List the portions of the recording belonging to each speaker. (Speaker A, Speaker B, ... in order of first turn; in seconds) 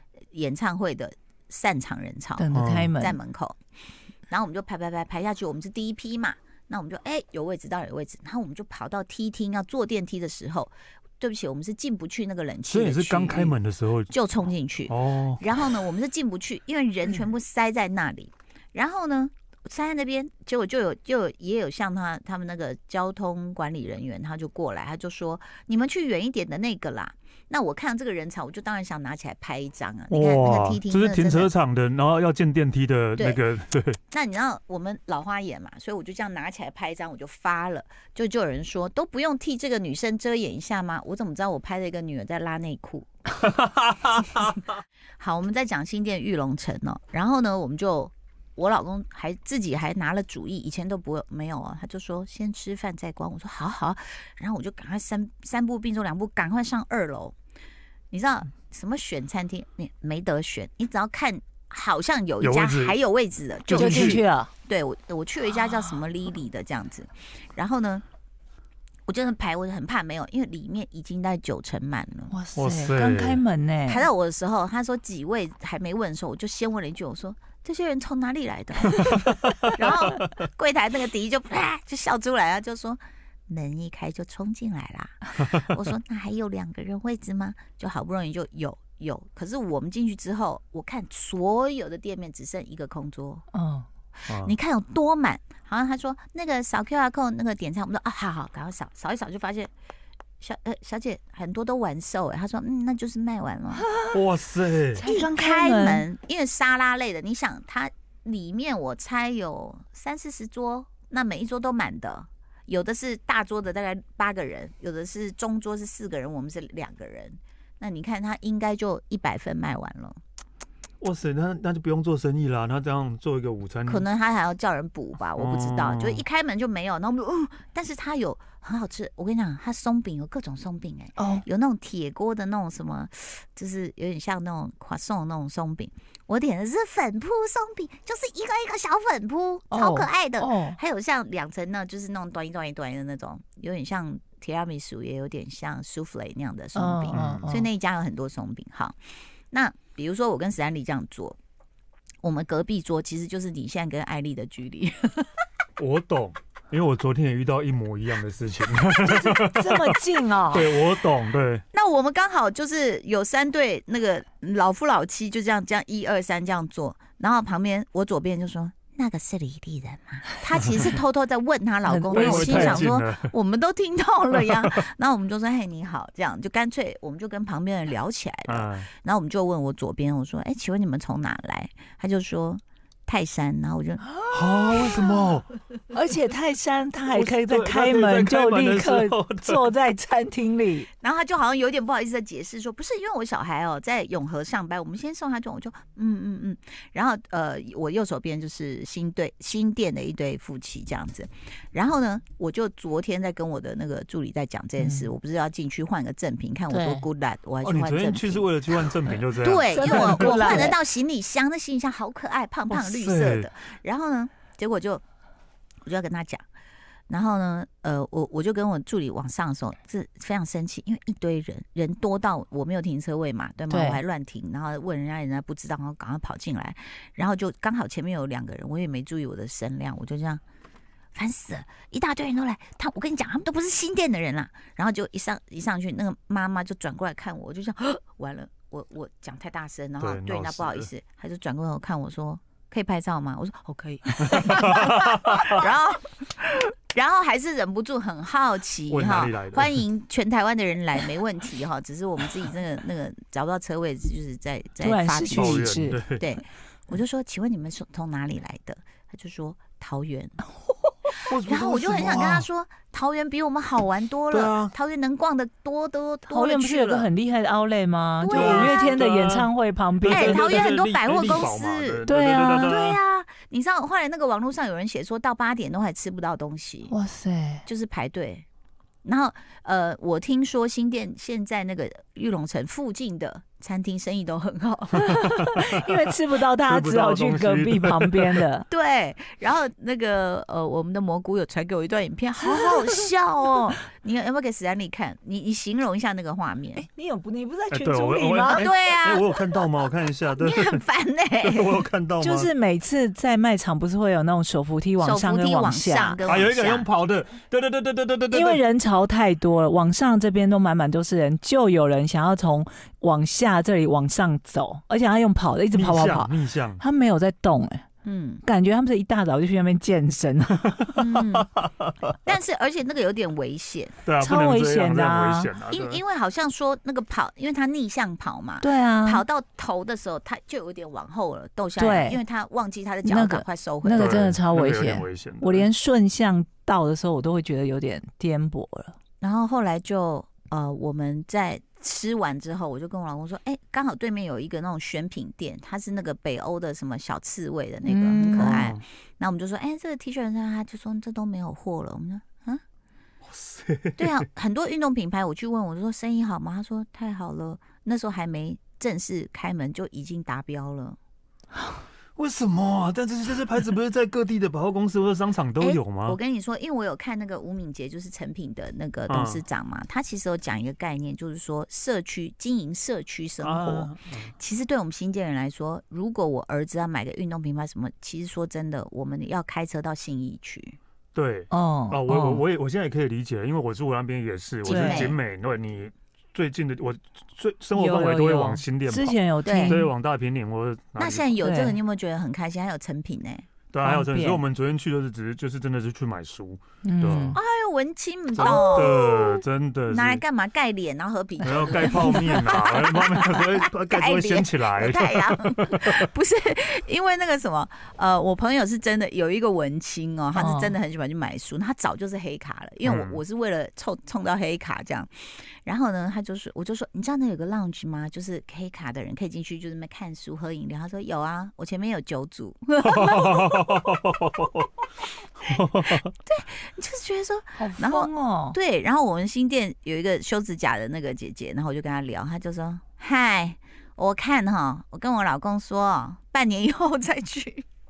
Speaker A: 0.3-3.6, 4.3-13.5, 14.1-31.5, 34.1-43.1, 45.2-57.3, 58.1-68.0, 69.1-72.3, 73.9-93.4, 94.4-99.7, 100.4-103.8, 105.0-120.2, 123.8-148.9, 149.5-151.4, 152.2-155.3, 161.7-184.0, 191.0-208.5, 209.4-215.0, 215.8-216.4, 217.1-230.4, 231.1-260.4, 261.4-267.1, 268.2-269.0, 270.0-276.9, 277.6-278.4, 279.0-285.1, 288.7-296.8, 298.5-299.3, 300.4-301.7, 305.0-306.9, 318.0-318.4, 320.9-321.5, 322.2-323.9, 325.7-334.3, 339.2-352.6, 354.0-361.0, 365.6-380.8, 384.6-385.1, 389.4-389.8, 391.0-393.4, 397.3-423.9, 426.2-437.6
Speaker B: 2.4-3.2, 63.7-64.5, 72.3-74.0, 93.5-93.9, 104.9-106.0, 131.2-131.4, 139.7-140.8, 146.7-147.7, 159.0-160.7, 171.8-172.9, 185.9-190.9, 204.8-205.1, 206.7-207.1, 209.7-210.8, 223.7-224.0, 254.8-256.0, 266.3-270.5, 272.1-272.8, 276.9-277.6, 285.0-288.6, 296.8-298.7, 302.2-306.2, 308.3-317.9, 318.4-321.0, 324.2-325.5, 328.6-329.2, 331.8-332.2, 333.0-339.0, 347.8-348.7, 381.5-382.4, 384.6-385.1, 387.7-389.9, 391.4-391.8, 393.8-394.4, 396.8-397.4, 398.5-398.9, 401.8-402.4, 410.3-410.8, 427.6-428.6
Speaker C: 2.5-2.9, 12.7-14.1, 14.9-15.6, 30.1-34.0, 43.4-44.5, 62.4-63.0, 63.7-64.2, 72.5-73.4, 94.3-94.5, 104.1-105.0, 121.0-124.0, 125.4-126.2, 147.1-147.5, 155.8-161.6, 172.1-173.3, 178.4-178.9, 184.3-185.5, 187.1-189.6, 207.6-210.7, 212.7-213.5, 240.0-240.9, 244.3-245.6, 248.9-249.8, 255.3-256.2, 261.3-262.5, 264.3-264.7, 268.3-269.5, 270.0-273.0, 286.6-288.4, 297.7-300.8, 301.4-302.5, 306.2-308.6, 315.7-316.8, 320.7-322.1, 324.0-326.0, 333.9-335.7, 348.4-348.8, 353.2-354.2, 362.1-366.2, 369.1-369.4, 373.4-374.3, 381.1-391.3, 393.7-397.4, 398.4-400.2, 401.4-406.0, 412.8-413.2, 422.8-424.6, 425.4-426.1